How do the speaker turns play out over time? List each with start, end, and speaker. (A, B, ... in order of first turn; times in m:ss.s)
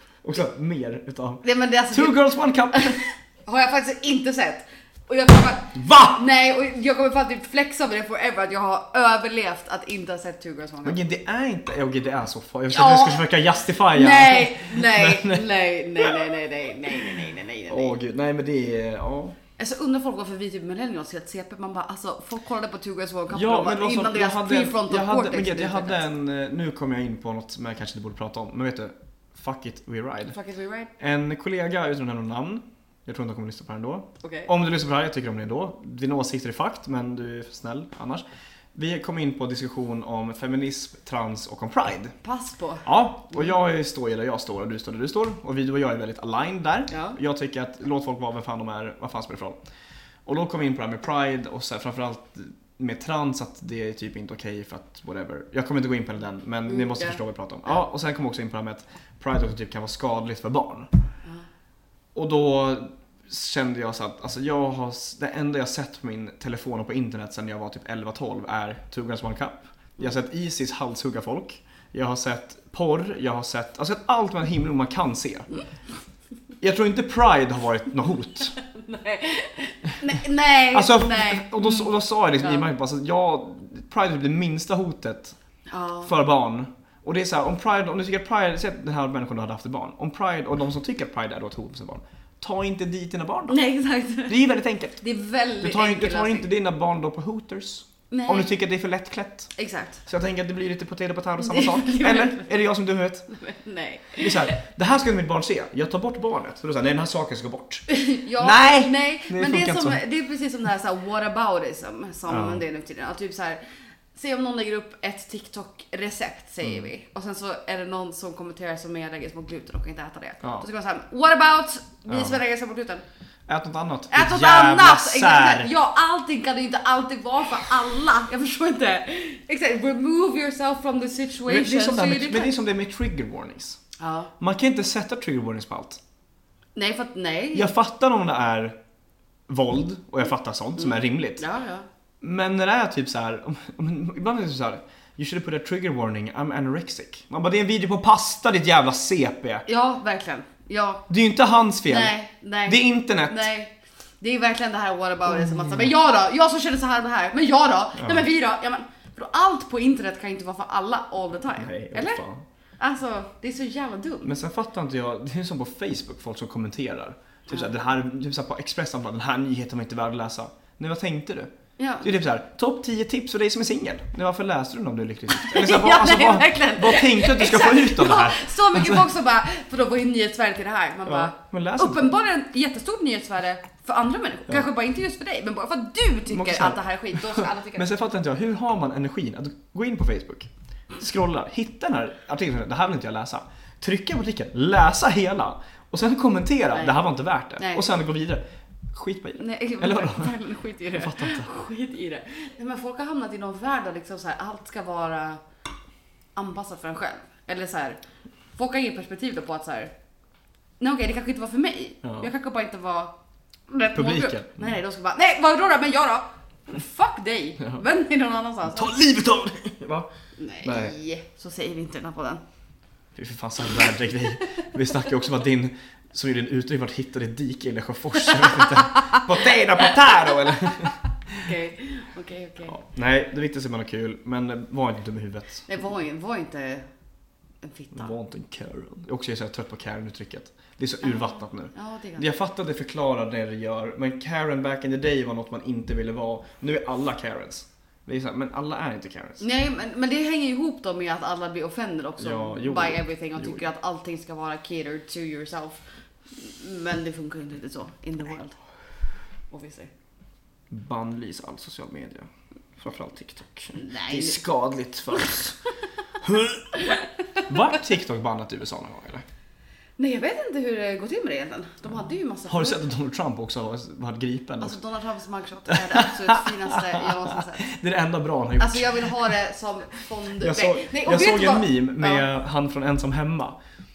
0:00.2-0:03.0 A
0:01.4-0:11.0 B
0:05.7-0:06.2 A
0:10.8-0:15.4 A
0:12.7-0:13.3 B
0:13.9-0:18.0 B
0:17.7-0:19.4 A
0:19.6-0:26.0 B
0:23.3-0:30.4 A
0:30.3-0:30.9 B
0:31.0-0:42.2 A
0:34.2-0:34.5 B
0:42.2-0:43.5 B
0:42.8-0:49.6 A
0:46.9-0:47.2 B
0:50.3-1:00.9 A
0:56.7-0:57.2 B
1:02.2-1:15.5 A
1:16.6-1:18.6 A
1:18.6-1:22.7 B
1:20.7-1:25.4 A
1:25.7-1:26.1 B
1:26.0-1:33.6 A
1:33.5-1:34.4 B
1:34.3-1:35.0 A
1:35.0-1:36.5 B
1:35.6-1:39.5 A
1:38.1-1:38.5 B
1:39.6-1:40.0 B
1:40.1-1:43.3 A
1:41.4-1:42.5 B
1:43.3-1:44.5 B
1:44.2-1:47.9 A
1:47.9-1:53.6 B
1:48.4-1:50.0 A
1:52.3-1:52.6 A
1:54.1-2:03.0 B
2:02.1-2:02.4 A
2:03.5-2:05.7 A
2:04.1-2:12.5 B
2:11.5-2:13.8 A
2:14.0-2:14.3 B
2:14.4-2:16.0 A
2:16.8-2:17.7 B
2:17.5-2:18.8 A
2:19.5-2:21.4 A
2:20.8-2:21.9 B
2:22.2-2:29.7 A
2:29.7-2:31.0 B
2:31.1-2:32.1 A
2:31.9-2:42.2 B
2:32.7-2:33.5 A
2:35.3-2:35.9 A
2:38.0-2:38.3 A
2:41.6-2:42.4 A
2:42.8-2:44.3 B
2:44.2-2:59.1 A
2:51.8-2:52.1 B
2:55.4-3:07.9 B
3:01.0-3:02.1 A
3:06.3-3:20.4 A
3:16.7-3:17.0 B
3:17.6-3:17.9 B
3:19.4-3:25.4 B
3:20.9-3:21.5 A
3:26.4-3:28.0 B
3:28.6-3:29.9 B
3:30.8-3:33.2 B
3:32.0-3:32.3 A
3:33.7-3:39.0 B
3:33.9-3:34.7 A
3:38.7-3:40.1 A
3:40.4-3:42.4 B
3:40.6-3:41.0 A
3:43.2-3:51.5 A
3:51.4-3:52.8 B
3:52.7-3:55.7 A
3:55.7-3:56.9 B
3:57.6-3:58.2 B
3:57.9-4:09.5 A
4:01.0-4:02.3 B
4:09.4-4:18.6 B
4:12.2-4:13.6 A
4:19.5-4:19.9 B
4:20.7-4:25.6 A
4:23.8-4:24.4 B
4:26.2-4:26.8 A
4:26.8-4:27.4 B
4:27.5-4:29.2 A
4:30.0-4:32.8 B
4:32.5-4:34.8 A
4:34.6-4:37.7 B
4:35.7-4:39.3 A
4:38.6-4:42.3 B
4:40.4-4:43.6 A